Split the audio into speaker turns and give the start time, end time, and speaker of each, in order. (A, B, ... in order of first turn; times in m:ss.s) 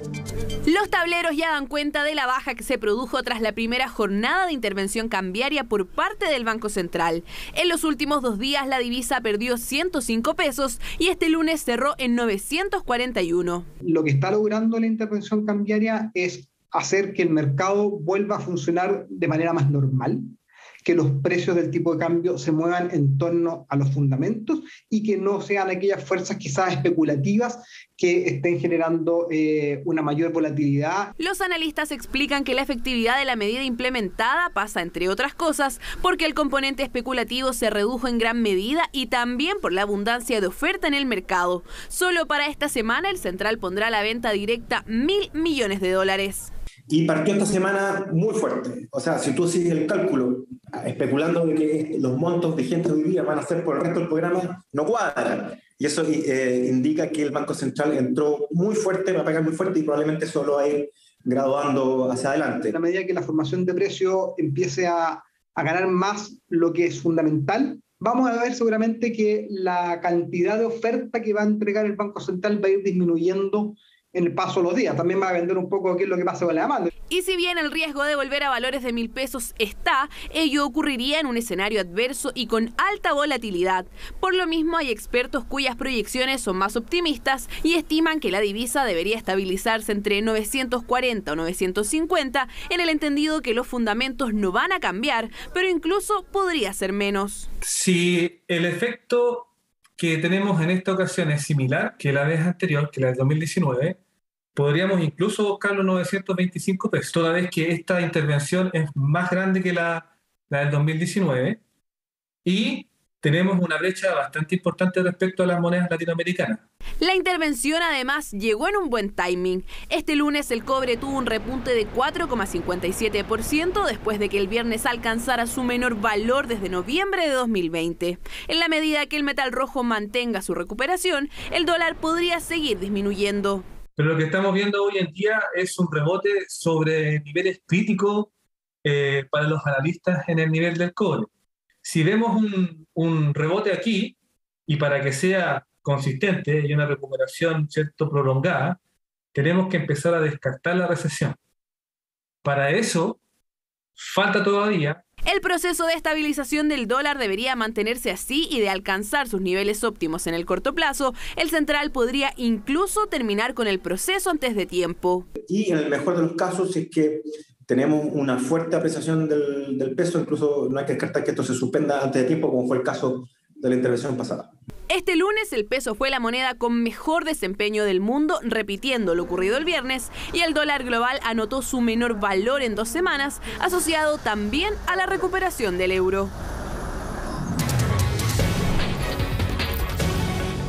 0:00.7-0:13.7 A
0:13.8-0:31.1 B
0:31.2-0:46.5 A
0:46.9-1:02.8 C
1:02.7-1:16.9 B
1:17.1-1:37.5 A
1:37.6-1:44.0 D
1:44.6-1:51.6 D
1:52.4-1:56.6 D
1:57.0-2:13.7 A
2:14.0-2:18.3 D
2:18.8-2:21.3 D
2:21.8-2:24.2 D
2:24.7-2:28.8 D
2:29.3-2:31.4 D
2:32.4-2:33.2 D
2:34.0-2:35.0 D
2:35.3-2:45.3 A
2:45.4-2:54.5 C
2:54.9-3:06.3 A